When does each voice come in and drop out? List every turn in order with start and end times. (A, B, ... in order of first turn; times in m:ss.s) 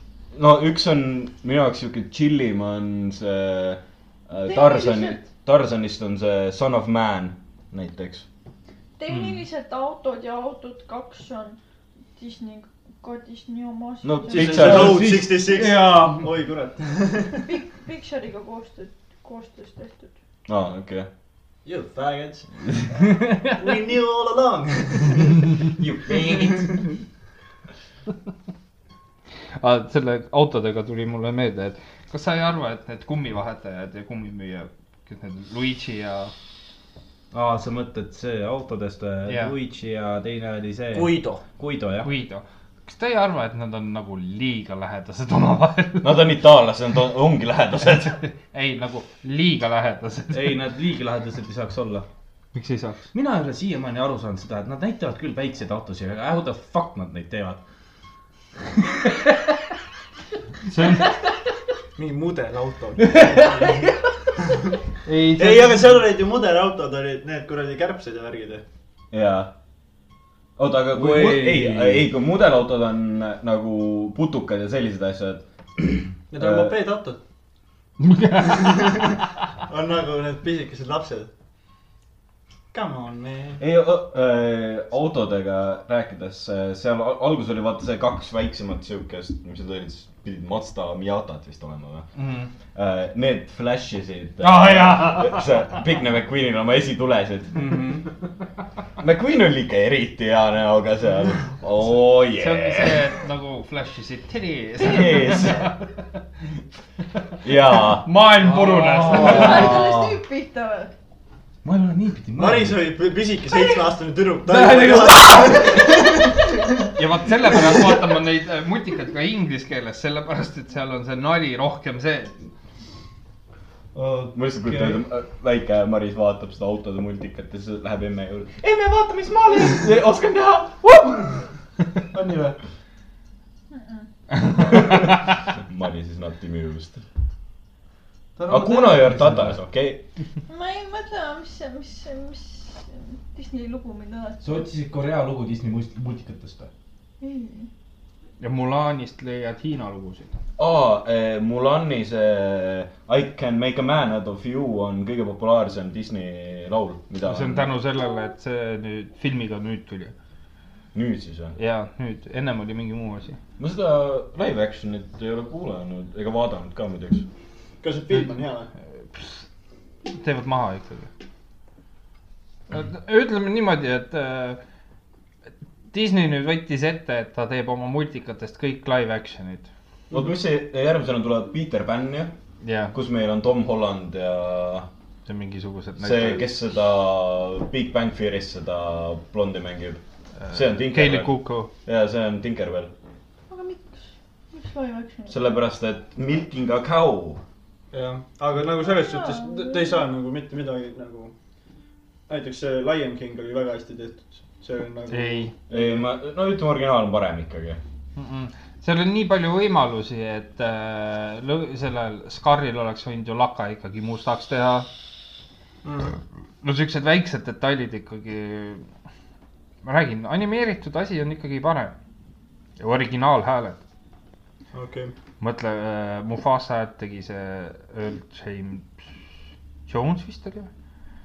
0:00.3-0:08.2 A
0:04.4-0:05.2 B
0:09.0-0:11.6 B
0:09.1-0:09.4 C
0:12.2-0:14.6 B
0:14.0-0:15.1 A
0:14.3-0:17.5 D
0:14.3-0:16.3 E
0:17.4-0:20.1 B
0:20.5-0:21.1 A
0:21.6-0:22.7 D
0:23.5-0:25.6 D
0:25.8-0:26.8 A
0:29.6-0:36.3 C
0:37.3-0:42.1 E
0:39.2-0:39.5 C
0:40.9-0:41.4 D
0:42.0-0:46.2 C
0:46.0-0:48.2 A
0:47.9-0:50.6 C
0:50.3-0:52.0 E
0:52.5-0:53.0 C
0:53.1-0:57.6 E
1:00.7-1:01.1 C
1:02.0-1:03.9 D
1:03.0-1:03.7 E
1:05.0-1:06.0 C
1:05.4-1:08.6 D
1:09.1-1:09.5 A
1:10.6-1:16.7 A
1:10.9-1:12.1 E
1:16.3-1:17.2 D
1:18.0-1:19.2 C
1:18.5-1:19.1 D
1:19.7-1:21.3 D
1:22.7-1:23.6 D
1:23.6-1:32.1 A
1:32.1-1:32.5 C
1:32.7-1:37.6 A
1:34.4-1:35.6 C
1:37.5-1:38.1 E
1:39.0-1:43.0 A
1:42.3-1:45.9 C
1:44.8-1:45.7 A
1:47.4-1:48.1 A
1:47.9-1:49.8 C
1:48.4-1:49.8 E
1:49.1-1:50.9 B
1:49.2-1:50.2 A
1:51.6-1:52.8 E
1:52.4-1:56.8 D
1:54.4-1:56.3 E
1:57.0-2:02.4 C
2:03.9-2:05.0 E
2:04.3-2:11.4 A
2:12.1-2:12.6 E
2:13.7-2:14.1 B
2:14.6-2:17.0 A
2:18.4-2:19.6 E
2:18.5-2:20.0 A
2:20.5-2:24.7 B
2:24.4-2:26.7 E
2:27.2-2:27.7 B
2:28.4-2:30.3 C
2:30.6-2:37.7 A
2:37.2-2:40.1 C
2:40.9-2:41.6 A
2:41.6-2:43.4 C
2:43.6-2:47.2 A
2:47.8-2:48.7 D
2:49.1-2:49.4 C
2:50.0-2:51.1 C
2:52.7-2:54.6 C
2:55.9-2:59.7 C
3:00.1-3:02.3 A
3:02.6-3:02.9 C
3:02.9-3:04.9 A
3:05.2-3:06.5 C
3:06.0-3:12.9 A
3:10.4-3:11.7 C
3:13.5-3:15.5 B
3:15.3-3:17.4 A
3:17.9-3:21.3 D
3:18.8-3:20.1 B
3:22.3-3:26.1 D
3:25.1-3:25.5 C
3:25.7-3:27.8 A
3:28.2-3:34.9 C
3:35.8-3:36.2 D
3:36.6-3:38.9 C
3:39.8-3:41.9 C
3:42.8-3:43.8 C
3:44.7-3:45.1 D
3:45.4-3:49.1 C
3:49.9-3:50.7 C